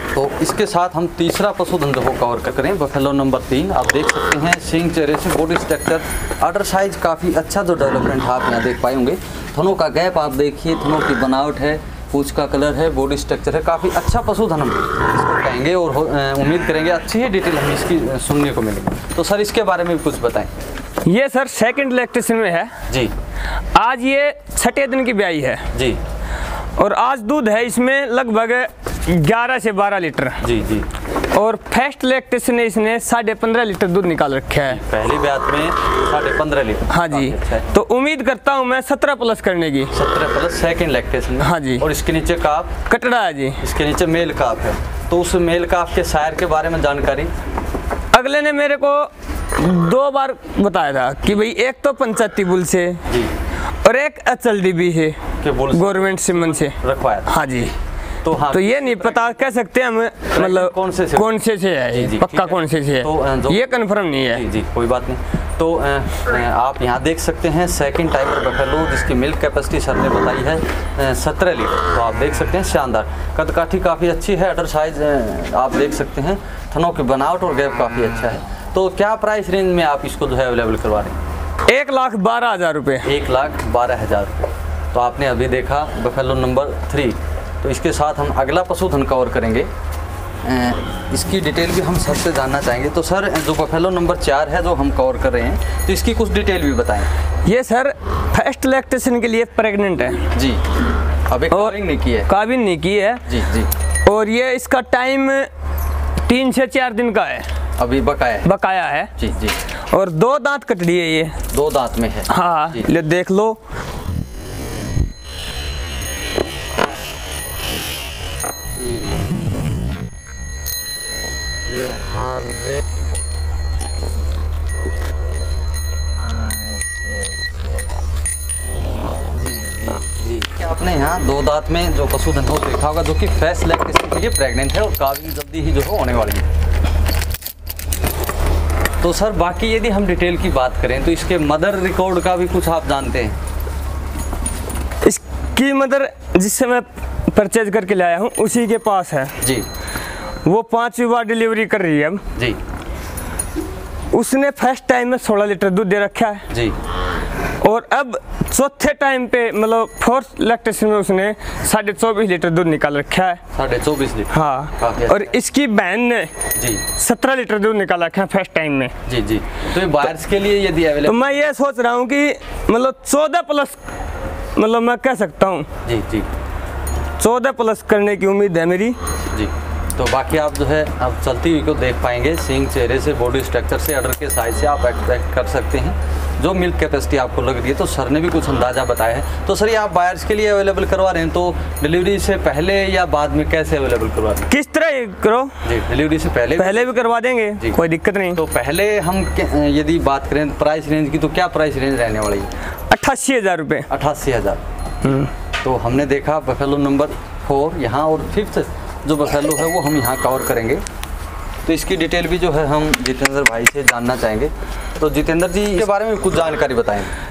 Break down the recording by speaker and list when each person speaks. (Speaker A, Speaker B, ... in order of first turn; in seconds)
Speaker A: 0.1-20.5, 25.7-26.0, 30.4-30.9, 34.7-37.7, 39.9-42.7, 43.6-47.3, 53.1-53.3, 55.4-57.7, 58.2-59.4, 60.3-61.3, 61.9-63.7, 64.3-81.2, 83.0-89.7, 90.4-97.1, 100.3-100.6, 101.3-102.3, 103.3-103.7, 107.8-108.5, 109.2-109.6, 111.5-112.9, 130.1-136.5, 139.0-143.4, 149.4-149.7, 156.5-156.7, 163.5-165.3, 166.6-166.8, 169.1-171.4, 175.8-176.3, 179.3-194.5, 195.6-196.9, 198.3-202.5, 203.9-204.6, 205.6-210.8, 211.7-217.1
Speaker B: 21.0-22.7, 23.7-25.7, 26.8-30.4, 31.3-34.8, 36.9-39.9, 41.4-41.8, 42.9-43.6, 48.1-53.0, 53.8-55.2, 55.7-57.7, 58.5-64.4, 81.7-83.1, 97.4-100.3, 101.5-103.3, 104.0-105.5, 106.2-107.5, 108.4-109.1, 109.9-111.4, 112.3-113.6, 145.0-149.3, 150.4-152.2, 154.1-156.5, 157.6-163.4, 164.3-166.3, 166.9-168.9, 171.0-173.8, 174.5-175.7, 177.2-179.0, 194.5-195.6, 196.6-198.4, 202.9-203.9, 205.0-205.3